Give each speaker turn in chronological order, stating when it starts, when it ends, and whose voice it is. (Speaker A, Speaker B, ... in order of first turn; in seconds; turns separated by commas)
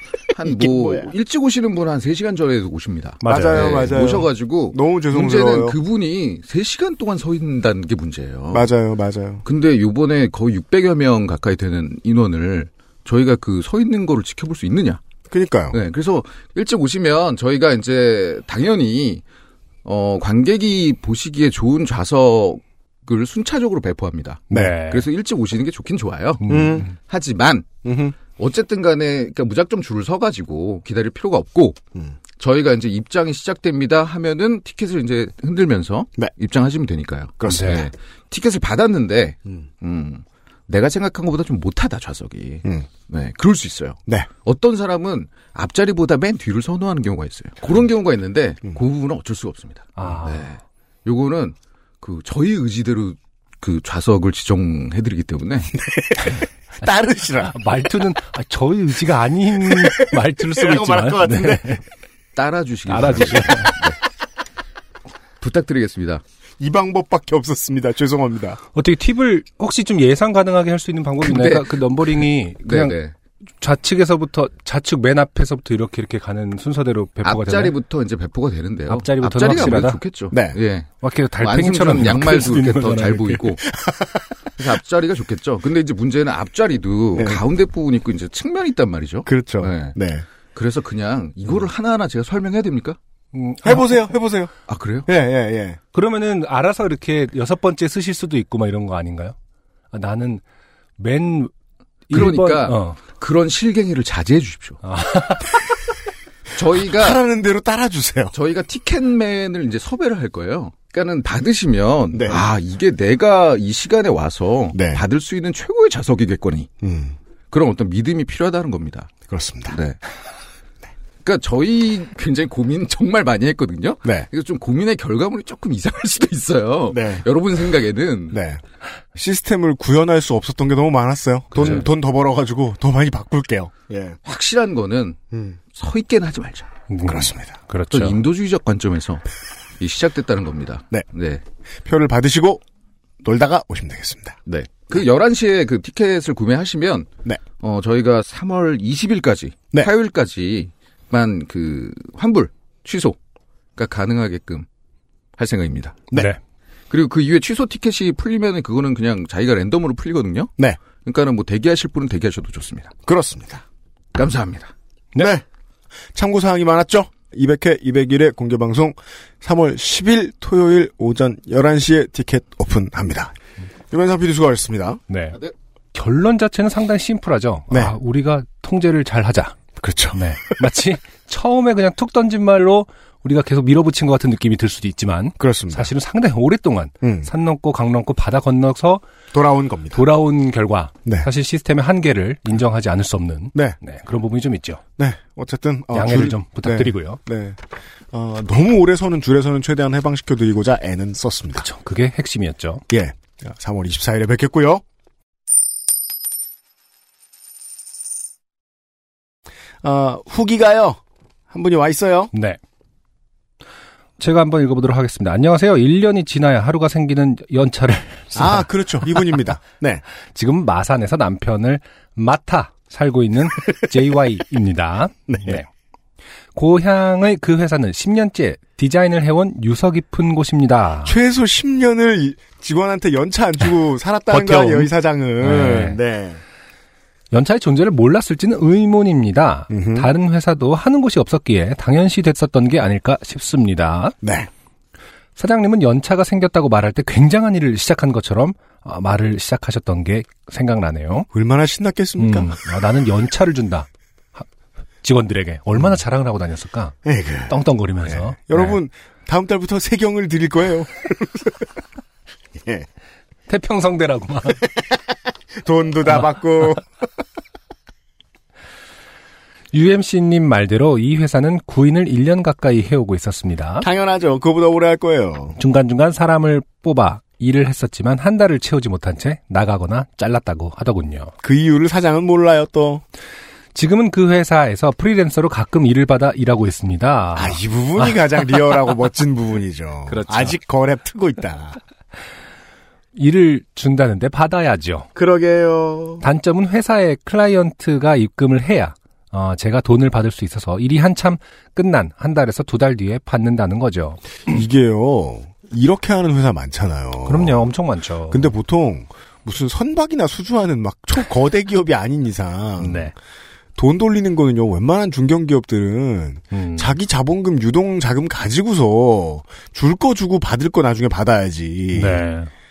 Speaker A: 0.3-8.7, Speaker B: 0.4-1.1, Speaker C: 3.2-3.9, Speaker B: 3.2-5.8, Speaker B: 8.5-9.4, Speaker A: 9.4-15.0, Speaker B: 15.3-15.8, Speaker A: 15.7-19.2, Speaker A: 19.9-31.8, Speaker C: 24.5-25.0, Speaker C: 26.4-26.9, Speaker B: 26.5-26.9, Speaker B: 27.9-28.2, Speaker A: 32.4-55.7, Speaker B: 37.4-37.8, Speaker C: 37.5-37.9, Speaker C: 50.0-50.5, Speaker B: 55.8-57.5, Speaker C: 57.4-61.8, Speaker B: 59.6-61.7, Speaker A: 62.4-64.0, Speaker C: 62.9-63.8, Speaker A: 65.4-66.2, Speaker B: 66.6-68.6, Speaker C: 68.7-73.0, Speaker A: 71.2-73.1, Speaker C: 73.6-77.8, Speaker A: 77.2-80.9, Speaker C: 78.9-80.0, Speaker B: 80.3-80.6, Speaker C: 81.0-83.5, Speaker A: 81.4-83.6, Speaker B: 83.7-84.2, Speaker A: 84.6-89.9, Speaker B: 87.1-87.4, Speaker B: 89.2-90.2, Speaker A: 90.5-93.0, Speaker C: 93.3-94.0, Speaker B: 93.6-94.5, Speaker A: 94.7-95.1, Speaker B: 95.0-95.8, Speaker C: 95.9-99.3, Speaker C: 99.9-100.4, Speaker C: 101.0-101.5, Speaker C: 102.1-103.0, Speaker A: 102.1-104.8, Speaker C: 104.8-105.6, Speaker A: 106.5-107.2, Speaker B: 106.9-108.3, Speaker A: 108.3-116.7, Speaker B: 112.1-112.4, Speaker B: 114.7-115.0, Speaker B: 116.8-117.2, Speaker A: 117.5-119.1, Speaker B: 119.3-119.8, Speaker A: 119.7-120.0, Speaker A: 121.2-128.4, Speaker B: 126.9-127.2, Speaker B: 128.3-128.6, Speaker B: 129.1-134.2, Speaker C: 131.5-131.8, Speaker A: 131.6-131.8, Speaker A: 134.2-135.2, Speaker B: 135.3-135.6, Speaker A: 135.7-136.7, Speaker C: 136.9-138.2, Speaker B: 137.0-137.6, Speaker A: 137.9-139.2, Speaker A: 139.8-141.4, Speaker B: 141.8-142.6, Speaker B: 143.2-144.4, Speaker A: 144.5-153.2, Speaker A: 153.8-154.7, Speaker A: 155.4-156.1, Speaker C: 156.1-156.4, Speaker A: 156.9-162.9, Speaker B: 163.1-163.6, Speaker A: 164.1-164.7, Speaker B: 165.2-165.4, Speaker B: 166.1-173.4, Speaker B: 173.9-175.0, Speaker C: 175.1-175.4, Speaker C: 175.9-179.6, Speaker B: 179.8-180.2, Speaker C: 180.1-189.0, Speaker B: 185.4-185.9, Speaker B: 187.0-187.3, Speaker B: 189.3-190.0, Speaker C: 189.9-194.8, Speaker B: 195.0-197.6, Speaker C: 195.9-197.2, Speaker B: 198.1-201.7, Speaker C: 201.6-202.8, Speaker B: 202.9-204.8, Speaker B: 209.8-211.0, Speaker B: 211.5-212.3, Speaker C: 212.3-212.6, Speaker C: 214.2-218.7, Speaker B: 218.4-220.0, Speaker C: 220.3-225.7, Speaker B: 225.3-225.6, Speaker C: 226.5-231.1, Speaker B: 231.0-236.4, Speaker C: 234.3-236.0, Speaker C: 237.3-244.2, Speaker B: 239.7-240.1, Speaker B: 244.2-244.5, Speaker C: 245.4-251.3, Speaker B: 251.3-252.6, Speaker C: 252.2-254.4, Speaker C: 255.0-257.0, Speaker B: 257.0-257.5, Speaker C: 257.5-258.8, Speaker B: 258.1-261.7, Speaker B: 262.6-262.9, Speaker C: 263.5-264.6, Speaker B: 265.6-266.9, Speaker C: 269.7-273.9, Speaker B: 273.8-275.6, Speaker C: 275.6-281.3, Speaker B: 281.4-283.0, Speaker C: 283.8-288.1, Speaker B: 287.4-291.8, Speaker C: 290.1-290.6, Speaker C: 293.1-295.1, Speaker B: 295.1-296.2, Speaker C: 296.2-304.2, Speaker B: 304.5-307.6, Speaker C: 307.2-308.5, Speaker B: 308.3-313.1, Speaker C: 312.8-313.1, Speaker B: 313.8-322.2, Speaker C: 316.5-316.9, Speaker C: 321.9-322.5